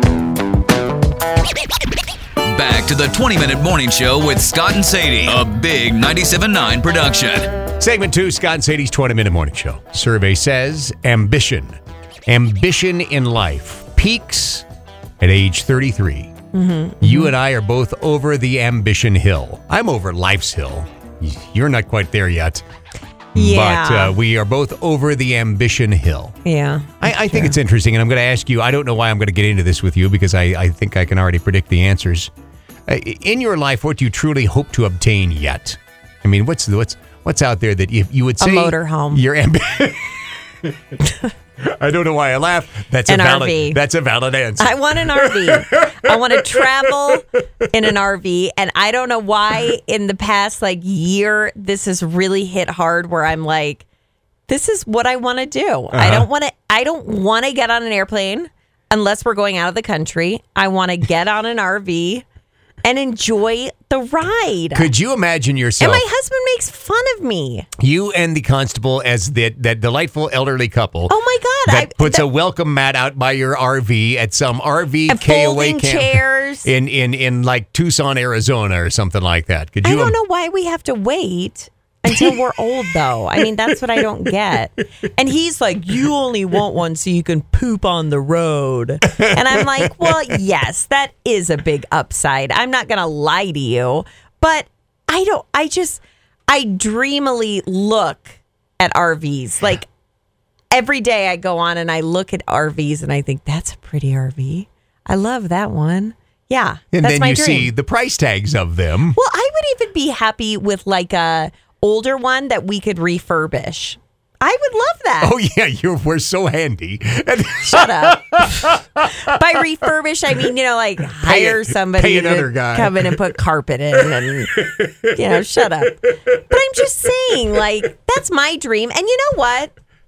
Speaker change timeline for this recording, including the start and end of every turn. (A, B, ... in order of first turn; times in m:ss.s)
0:02.4-0:07.5 A
0:07.8-0:14.6 B
0:15.2-0:16.3 B
0:16.5-0:17.3 C
0:17.0-0:22.6 B
0:23.3-0:24.2 C
0:23.3-0:26.4 B
0:26.4-0:27.5 C
0:27.0-0:32.3 B
0:32.9-0:41.0 B
0:38.4-0:39.2 C
0:41.6-0:47.2 B
0:43.1-0:43.8 C
0:44.6-0:53.8 C
0:54.5-1:02.2 C
0:55.9-0:56.3 B
1:02.8-1:04.9 C
1:04.7-1:06.0 B
1:05.8-1:07.7 C
1:07.8-1:11.1 B
1:11.1-1:12.3 C
1:11.6-1:20.2 B
1:15.1-1:16.7 C
1:19.8-1:39.9 C
1:22.1-1:22.4 B
1:29.1-1:30.4 B
1:40.7-1:47.7 C
1:46.9-1:49.2 B
1:49.1-1:55.3 C
1:55.2-1:59.4 B
1:57.6-2:09.7 C
2:01.1-2:03.3 B
2:04.0-2:05.4 B